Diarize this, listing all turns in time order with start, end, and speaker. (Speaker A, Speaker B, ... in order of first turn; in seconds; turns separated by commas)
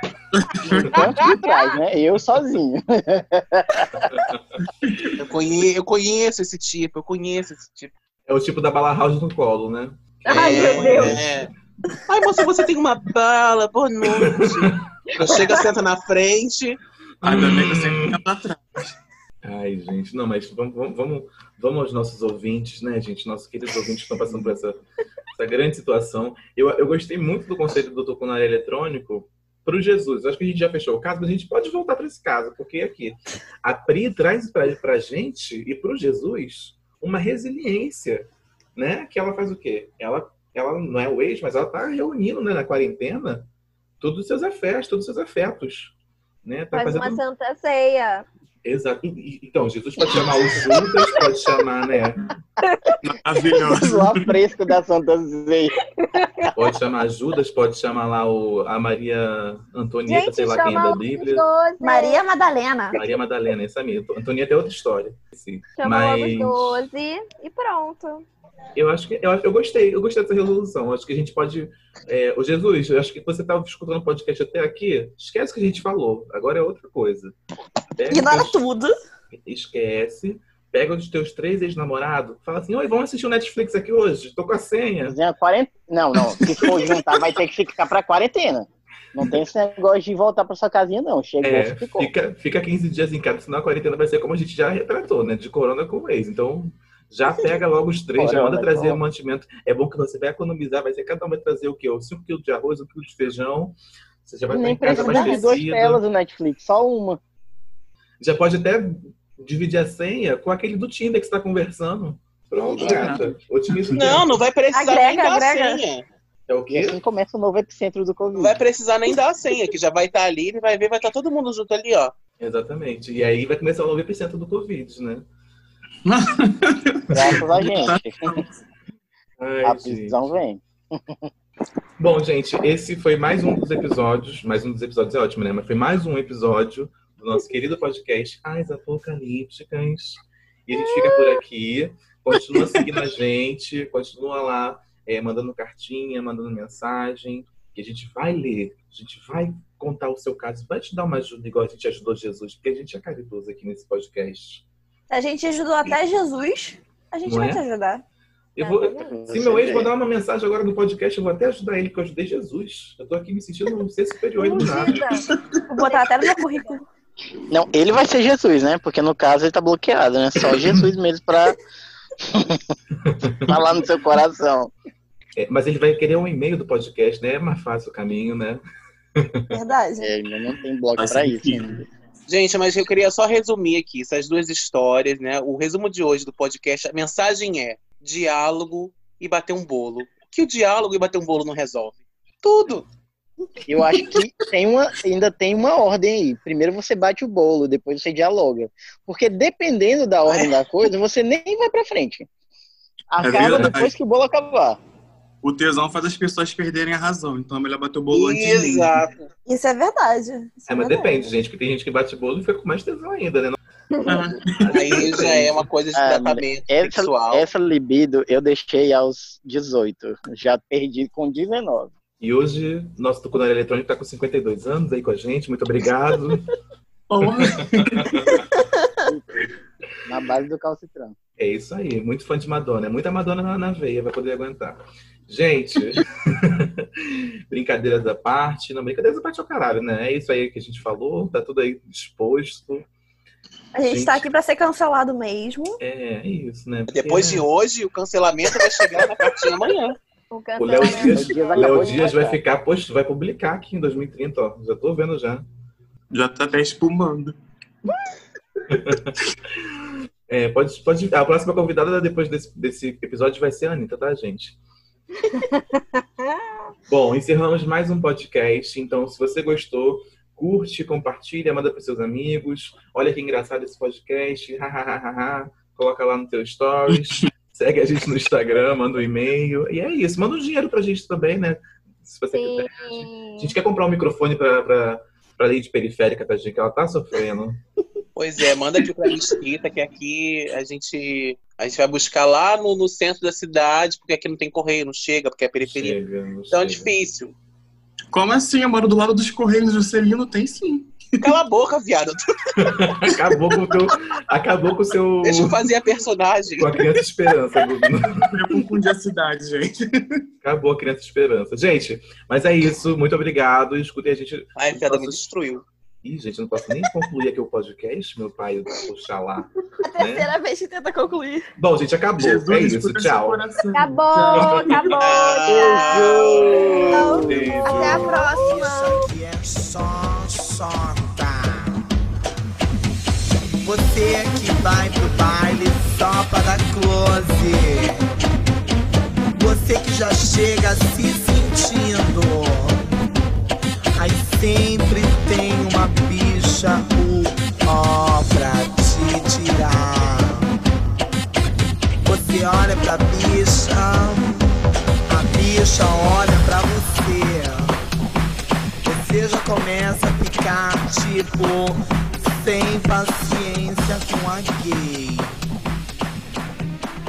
Speaker A: 0.3-1.0, Speaker B: 0.7-1.0, Speaker C: 0.8-3.9, Speaker B: 4.1-4.4, Speaker A: 4.8-5.2, Speaker D: 5.2-7.9, Speaker B: 8.3-11.5, Speaker E: 10.2-11.2, Speaker D: 10.3-11.5, Speaker D: 12.1-16.8, Speaker B: 14.1-15.5, Speaker B: 17.2-18.2, Speaker A: 17.2-18.9, Speaker B: 19.4-24.8, Speaker B: 25.3-43.5, Speaker B: 44.0-45.9, Speaker B: 46.4-47.2, Speaker E: 46.7-48.2, Speaker B: 48.6-52.3, Speaker A: 53.0-54.4, Speaker C: 53.5-55.7, Speaker E: 56.0-56.5, Speaker B: 56.5-61.4, Speaker E: 60.1-62.2, Speaker F: 61.8-63.0, Speaker B: 62.9-66.8, Speaker E: 65.8-68.2, Speaker B: 68.8-77.3, Speaker B: 78.0-78.6, Speaker F: 78.1-78.9, Speaker B: 79.4-85.2, Speaker C: 85.1-92.1, Speaker B: 91.4-106.0, Speaker C: 98.2-99.0, Speaker C: 104.5-107.2, Speaker E: 104.9-105.5, Speaker B: 108.2-114.2, Speaker A: 112.7-114.2, Speaker D: 113.9-116.0, Speaker E: 114.7-115.8, Speaker F: 114.8-115.6, Speaker B: 116.5-117.0, Speaker C: 116.7-118.6, Speaker D: 118.3-122.1, Speaker B: 122.4-125.2, Speaker A: 126.0-128.5, Speaker C: 127.1-128.4, Speaker B: 129.4-130.2, Speaker C: 129.6-131.3, Speaker B: 132.0-154.6, Speaker A: 142.3-143.0, Speaker F: 155.1-158.0, Speaker B: 157.2-157.6, Speaker B: 158.6-165.0, Speaker E: 158.6-159.1, Speaker C: 158.8-159.9, Speaker E: 164.4-165.2, Speaker A: 164.6-165.6, Speaker F: 165.7-166.8, Speaker E: 165.8-166.1, Speaker C: 167.5-171.6, Speaker B: 170.5-170.8, Speaker C: 172.2-172.6, Speaker B: 173.0-173.5, Speaker C: 173.4-174.7, Speaker B: 175.3-178.6, Speaker B: 179.2-179.6, Speaker F: 179.5-180.1, Speaker C: 180.0-181.9, Speaker A: 181.0-181.8, Speaker D: 182.3-192.8, Speaker C: 193.7-202.3, Speaker A: 193.9-194.2, Speaker D: 200.2-200.6, Speaker C: 203.1-204.8, Speaker A: 203.2-203.9, Speaker B: 203.3-203.7, Speaker A: 205.4-209.0, Speaker D: 208.1-209.1, Speaker F: 209.4-211.3, Speaker B: 210.7-213.6, Speaker A: 214.1-214.9, Speaker B: 214.6-215.7, Speaker D: 214.7-217.4, Speaker C: 215.9-221.9, Speaker B: 222.2-226.5, Speaker A: 227.1-228.4, Speaker B: 227.2-228.4, Speaker C: 229.0-229.5, Speaker C: 230.1-231.2, Speaker B: 231.4-242.8, Speaker F: 243.7-245.8, Speaker B: 243.9-244.2, Speaker B: 245.8-247.4, Speaker D: 246.9-250.0, Speaker E: 250.3-252.1, Speaker B: 250.6-255.4, Speaker C: 250.9-252.4, Speaker A: 256.1-257.3, Speaker B: 258.7-259.7, Speaker B: 260.3-264.6, Speaker E: 265.3-265.6, Speaker B: 266.9-287.6, Speaker A: 276.9-277.3, Speaker E: 282.3-283.6, Speaker D: 288.1-296.0, Speaker B: 295.6-296.9, Speaker D: 296.5-297.3, Speaker A: 298.1-301.3, Speaker D: 301.2-302.5, Speaker B: 302.6-305.5, Speaker D: 305.2-306.8, Speaker B: 306.6-308.6, Speaker A: 308.3-310.2, Speaker B: 310.4-315.2, Speaker D: 314.6-315.6, Speaker B: 316.0-320.3, Speaker F: 319.8-321.5, Speaker B: 321.6-323.4, Speaker A: 322.2-325.0, Speaker E: 323.7-326.1, Speaker D: 325.0-326.9, Speaker C: 325.5-327.7, Speaker F: 326.8-329.1, Speaker B: 327.2-328.2, Speaker G: 327.7-331.8, Speaker E: 327.7-328.3, Speaker G: 333.6-338.1, Speaker G: 339.3-342.8, Speaker G: 343.9-350.5, Speaker G: 352.0-354.5, Speaker G: 355.1-357.7, Speaker G: 358.8-365.4